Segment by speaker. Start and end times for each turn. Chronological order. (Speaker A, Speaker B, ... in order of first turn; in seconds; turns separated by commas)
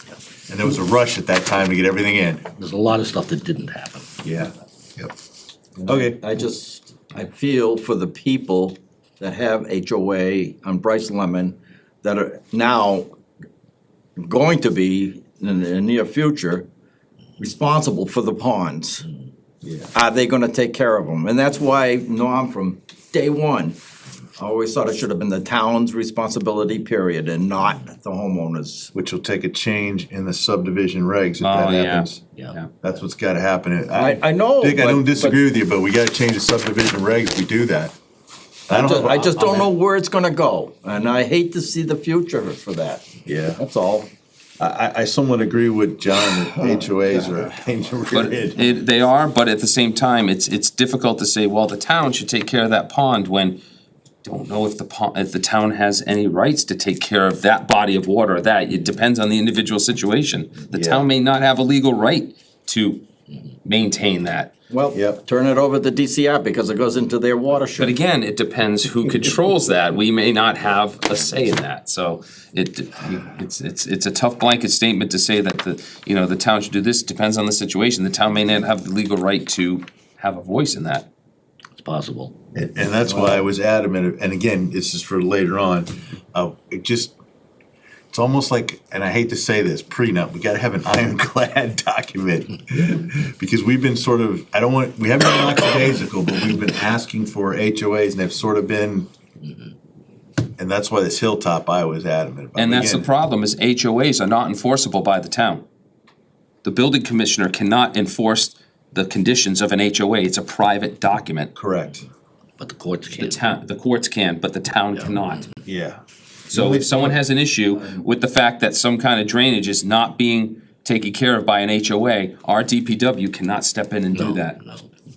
Speaker A: 0.5-2.5, Speaker B: 2.6-4.1, Speaker A: 4.2-5.1, Speaker C: 5.8-13.1, Speaker A: 5.9-6.2, Speaker C: 14.2-16.7, Speaker C: 17.4-19.1, Speaker A: 19.6-19.9, Speaker C: 19.9-23.8, Speaker C: 24.4-28.9, Speaker A: 28.9-32.2, Speaker D: 31.4-32.7, Speaker A: 32.8-38.0, Speaker C: 33.9-35.4, Speaker A: 38.7-39.7, Speaker C: 38.7-44.1, Speaker A: 43.2-43.6, Speaker A: 44.6-48.6, Speaker C: 46.5-47.5, Speaker D: 48.1-53.6, Speaker D: 54.2-63.0, Speaker A: 60.7-61.1, Speaker D: 63.6-64.5, Speaker C: 64.7-68.0, Speaker A: 64.9-65.2, Speaker D: 67.8-81.1, Speaker B: 81.8-82.3, Speaker A: 82.5-87.2, Speaker A: 88.1-99.1, Speaker A: 100.6-103.1, Speaker D: 102.6-105.7, Speaker D: 106.6-111.5, Speaker A: 111.5-112.1, Speaker B: 112.6-113.4, Speaker D: 113.2-115.5, Speaker A: 115.7-117.2, Speaker D: 116.5-124.6, Speaker B: 124.1-124.9